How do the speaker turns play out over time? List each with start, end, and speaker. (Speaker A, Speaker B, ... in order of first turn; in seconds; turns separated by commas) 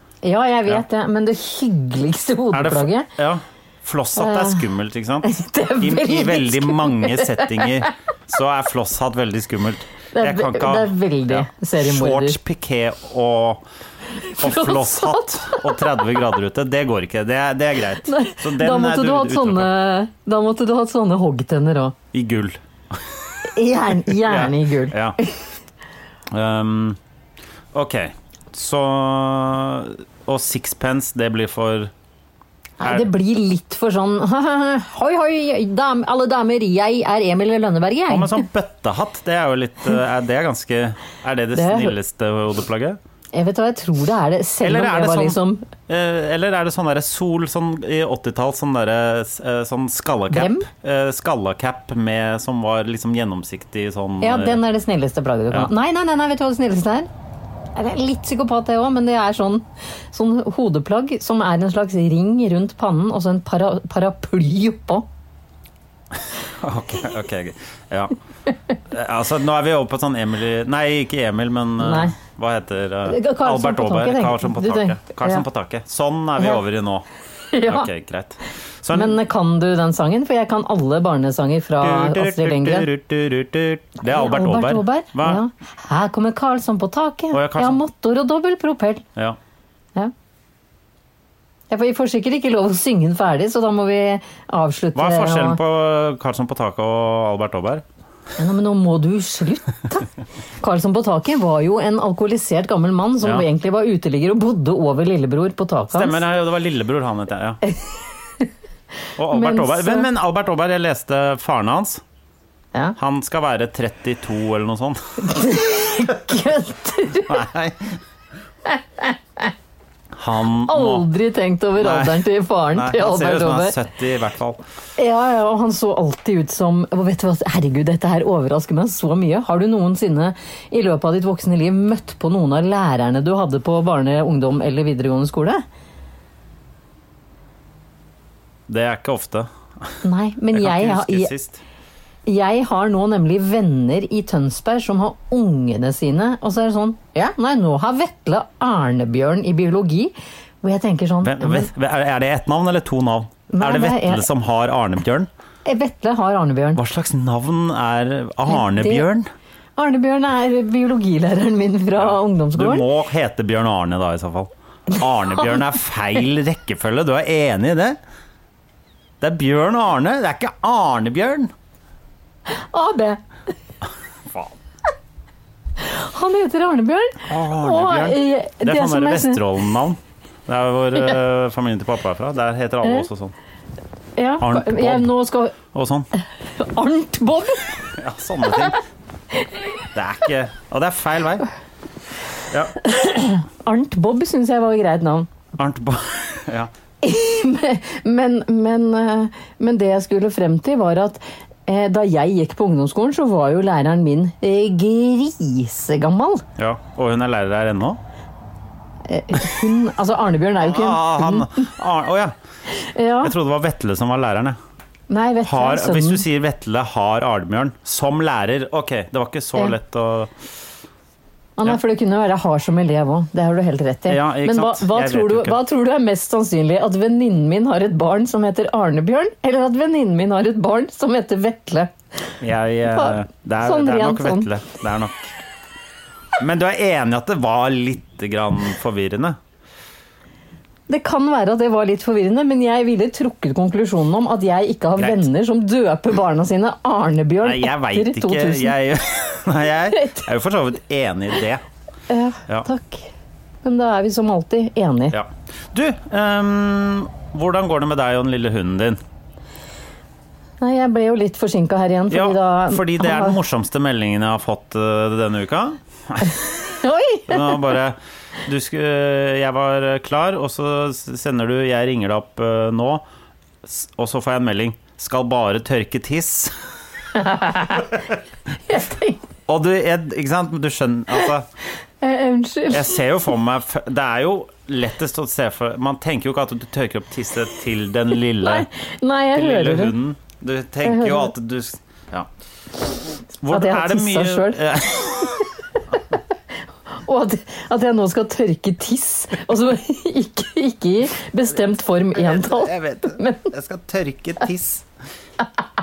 Speaker A: 0.2-3.1, Speaker B: 2.5-13.7, Speaker A: 4.2-4.6, Speaker A: 5.2-7.9, Speaker A: 10.1-12.4, Speaker A: 14.2-16.0, Speaker B: 14.4-19.7, Speaker A: 18.1-21.9, Speaker B: 22.1-23.4, Speaker A: 23.5-25.3, Speaker B: 24.0-25.2, Speaker B: 26.3-27.0, Speaker B: 27.7-31.9, Speaker A: 32.8-38.4, Speaker B: 32.8-33.1, Speaker B: 38.1-43.0, Speaker A: 41.5-42.0, Speaker A: 43.3-45.6, Speaker B: 44.6-54.6, Speaker A: 50.3-50.7, Speaker A: 54.2-57.1, Speaker A: 57.8-65.1, Speaker B: 66.6-68.2, Speaker B: 68.9-77.1, Speaker A: 71.8-72.2, Speaker A: 73.1-75.5, Speaker A: 77.5-77.9, Speaker B: 77.7-79.2, Speaker A: 78.9-82.9, Speaker B: 81.8-85.4, Speaker A: 84.0-89.1, Speaker B: 87.3-87.8, Speaker A: 91.7-95.6, Speaker B: 95.0-97.8, Speaker A: 98.4-100.1, Speaker A: 100.6-106.2, Speaker B: 105.9-107.6, Speaker A: 107.7-108.5, Speaker B: 109.2-112.0, Speaker A: 109.3-110.1, Speaker B: 113.0-115.3, Speaker A: 115.2-117.4, Speaker B: 117.1-118.0, Speaker A: 118.7-119.5, Speaker B: 120.1-121.1, Speaker A: 120.7-123.8, Speaker B: 121.8-124.6, Speaker A: 125.0-135.6, Speaker B: 138.7-139.9, Speaker A: 140.0-141.3, Speaker B: 140.5-141.6, Speaker A: 142.3-151.7, Speaker B: 151.2-155.3, Speaker A: 153.5-154.3, Speaker A: 155.7-156.8, Speaker B: 156.8-159.3, Speaker A: 158.5-159.1, Speaker A: 159.8-162.9, Speaker B: 162.0-168.0, Speaker B: 169.2-171.5, Speaker A: 172.5-173.2, Speaker B: 174.3-174.5, Speaker A: 175.8-179.4, Speaker B: 177.3-183.3, Speaker A: 184.2-185.6, Speaker B: 184.4-186.1, Speaker A: 186.6-187.8, Speaker B: 188.0-188.8, Speaker B: 189.9-191.5, Speaker B: 192.5-192.8, Speaker A: 192.8-195.3, Speaker B: 195.6-196.7, Speaker A: 197.0-206.4, Speaker B: 206.6-208.0, Speaker A: 209.1-211.7, Speaker B: 210.6-212.3, Speaker A: 212.7-213.3, Speaker B: 213.2-214.6, Speaker A: 215.1-216.2, Speaker B: 215.4-220.3, Speaker A: 221.6-231.9, Speaker B: 224.1-225.6, Speaker B: 232.4-235.3, Speaker A: 232.9-234.5, Speaker B: 236.4-239.4, Speaker A: 240.9-248.8, Speaker B: 245.0-245.3, Speaker B: 247.4-251.6, Speaker A: 252.1-253.1, Speaker A: 253.6-255.2, Speaker B: 255.1-259.0, Speaker A: 260.6-263.4, Speaker B: 262.1-266.4, Speaker A: 266.7-267.6, Speaker B: 267.3-273.1, Speaker B: 273.6-276.5, Speaker A: 277.1-277.9, Speaker A: 278.7-279.2, Speaker B: 279.5-281.5, Speaker A: 282.0-283.0, Speaker B: 282.7-288.7, Speaker A: 288.4-289.9, Speaker B: 289.4-292.3, Speaker A: 290.8-291.3, Speaker B: 293.4-295.4, Speaker A: 293.5-294.6, Speaker A: 297.0-303.5, Speaker B: 302.1-304.9